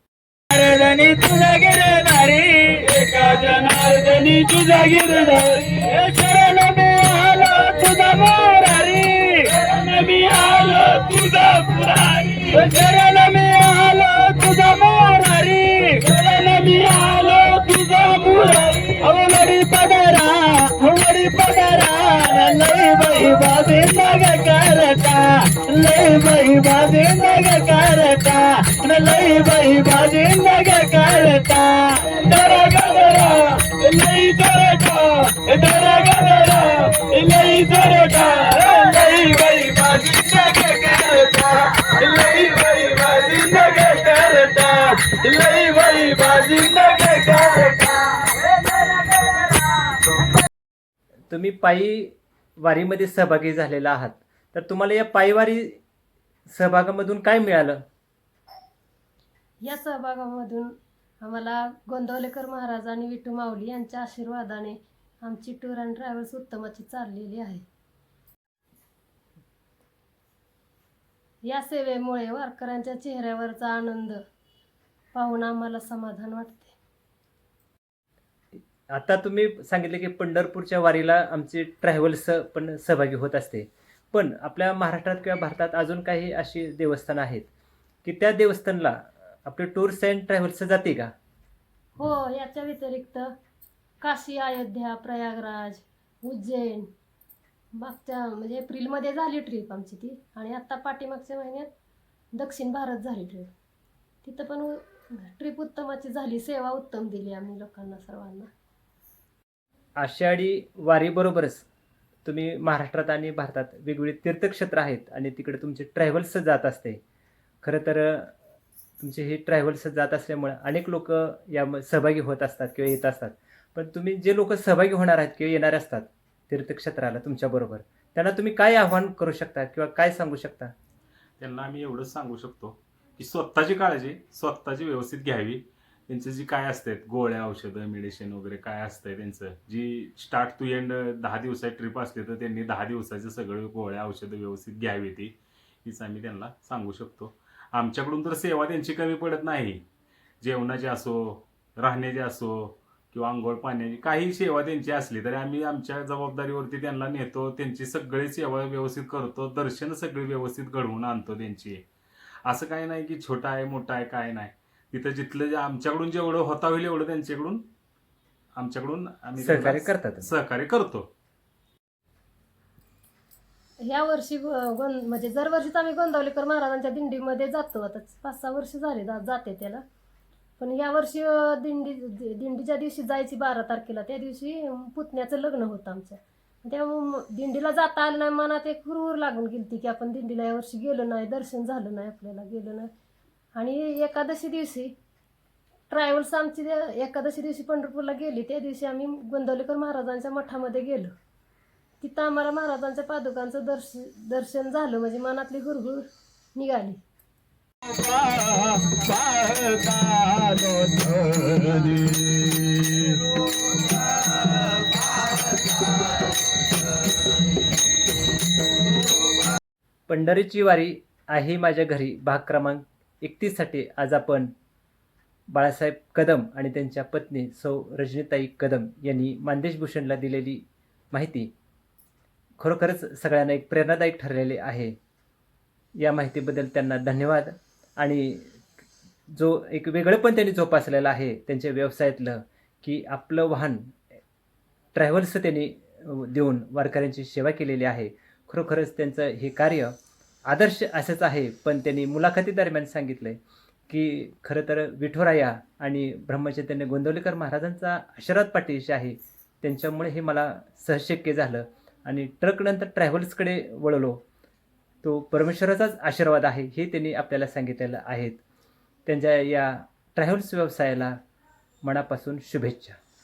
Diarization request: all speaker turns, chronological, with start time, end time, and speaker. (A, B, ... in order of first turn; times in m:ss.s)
0:00.5-0:49.2 A
0:51.3-0:55.8 B
0:56.5-0:57.8 B
0:59.6-1:07.6 C
1:11.4-1:14.2 C
1:15.1-1:16.8 C
1:18.5-1:27.5 B
1:28.0-1:31.1 B
1:32.0-1:33.3 C
1:34.0-1:36.9 C
1:37.7-1:41.7 C
1:42.3-1:43.5 C
1:44.2-1:48.5 C
1:50.0-1:51.6 B
1:52.2-1:57.0 B
1:57.6-1:58.3 B
1:59.0-2:10.7 B
2:11.4-2:29.8 D
2:30.4-2:41.8 D
2:42.4-2:47.6 D
2:48.6-2:51.1 D
2:49.4-2:50.3 B
2:53.8-2:59.8 C
3:00.6-3:12.9 C
3:13.5-3:14.9 C
3:15.9-3:21.1 C
3:22.0-3:27.0 C
3:27.9-3:33.2 A
3:40.1-3:44.5 B
3:45.5-3:51.5 B
3:52.6-3:55.0 B
3:56.0-3:58.6 B
3:59.3-4:04.0 B
4:04.9-4:09.9 B
4:10.5-4:24.2 B
4:25.0-4:28.4 B
4:29.0-4:31.2 B
4:31.8-4:33.0 B